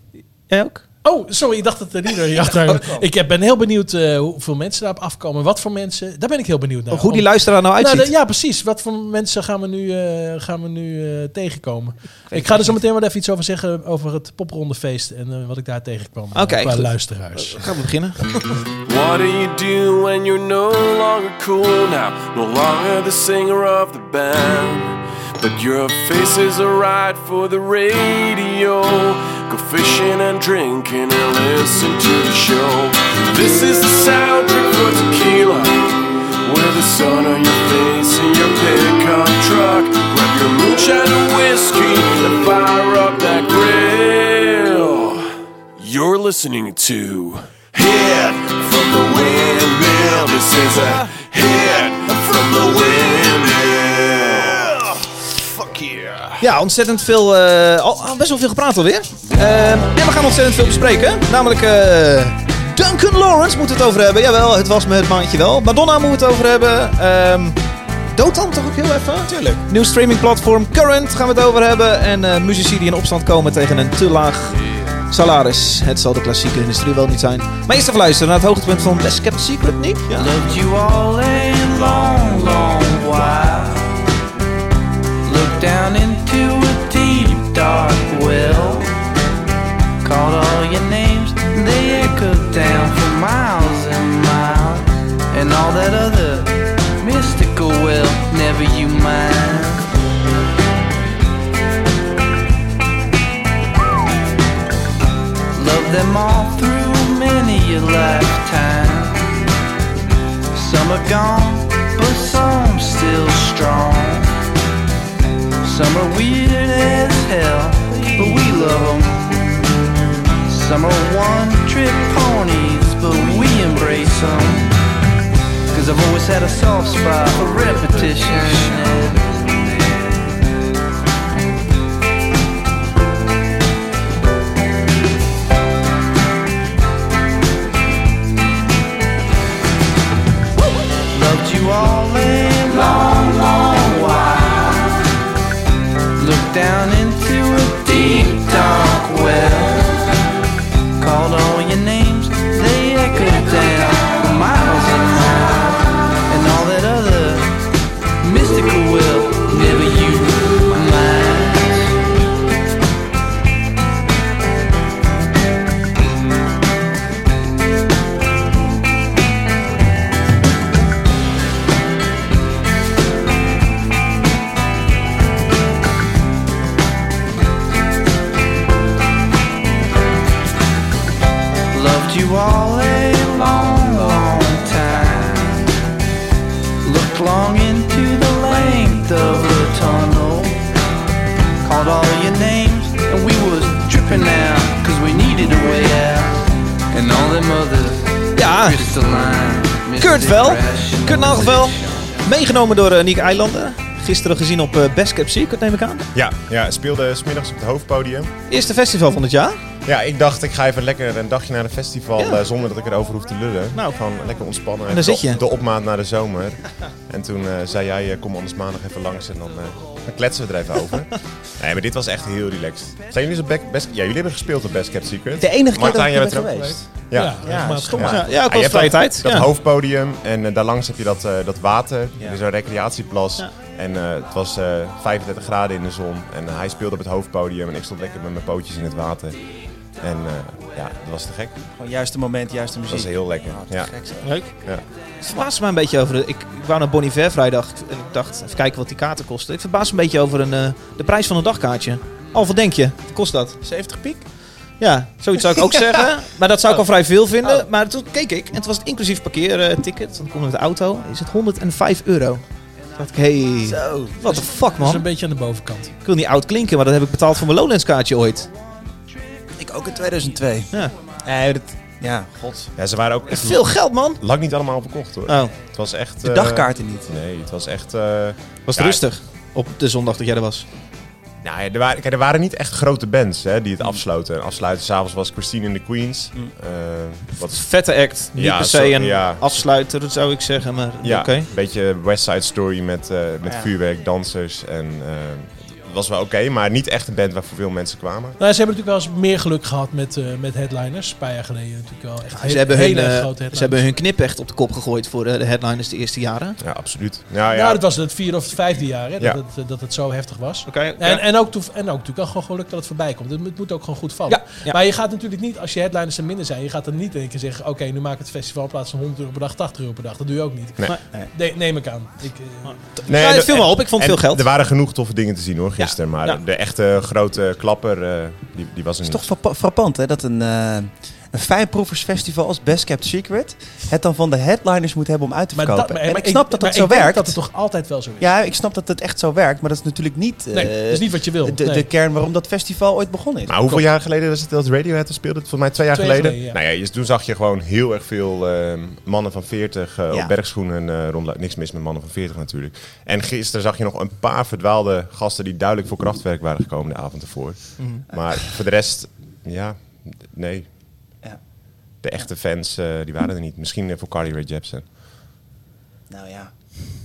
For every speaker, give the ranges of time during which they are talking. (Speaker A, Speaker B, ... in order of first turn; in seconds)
Speaker A: 0.5-0.8, 6.9-8.1, 12.3-12.7, 16.3-18.6, 56.4-67.6, 68.1-74.5, 75.1-80.3, 198.3-198.8, 200.0-206.1, 208.5-209.6, 214.9-215.4, 228.0-229.5, 244.2-244.5, 245.2-253.6, 254.8-262.4, 263.0-265.0, 266.0-268.5, 273.3-274.2, 275.3-275.5, 278.7-280.6, 287.4-291.5, 302.4-306.6, 310.6-311.2, 314.3-314.8, 322.6-324.4, 325.8-326.4, 357.8-358.0
Speaker B: 1.0-17.6, 227.1-228.2, 264.3-265.9, 298.4-303.8, 307.5-322.7, 335.5-338.3, 340.5-341.9, 345.9-346.6
Speaker C: 2.4-3.0, 69.3-69.6, 225.4-226.9, 227.4-228.2, 241.8-244.3, 253.6-254.2, 255.6-255.8, 263.6-264.2, 269.6-270.7, 271.2-272.7, 276.2-277.1, 329.0-337.4, 338.2-343.6, 366.1-366.5
Speaker D: 18.8-56.4
Speaker E: 80.1-84.0, 85.2-88.9, 90.0-99.9, 105.5-109.4, 110.5-114.3, 115.6-119.7, 120.5-124.7, 125.7-129.6, 141.1-145.0, 146.2-150.0, 151.0-157.6, 158.2-161.9, 181.7-185.7, 186.8-190.6, 191.6-202.1
Speaker F: 206.1-208.3, 209.8-241.6, 242.9-243.9, 244.5-244.8, 272.8-279.0, 281.4-287.7, 288.3-289.6, 291.0-298.4, 306.6-307.8, 323.1-329.3, 343.5-360.7, 362.0-364.9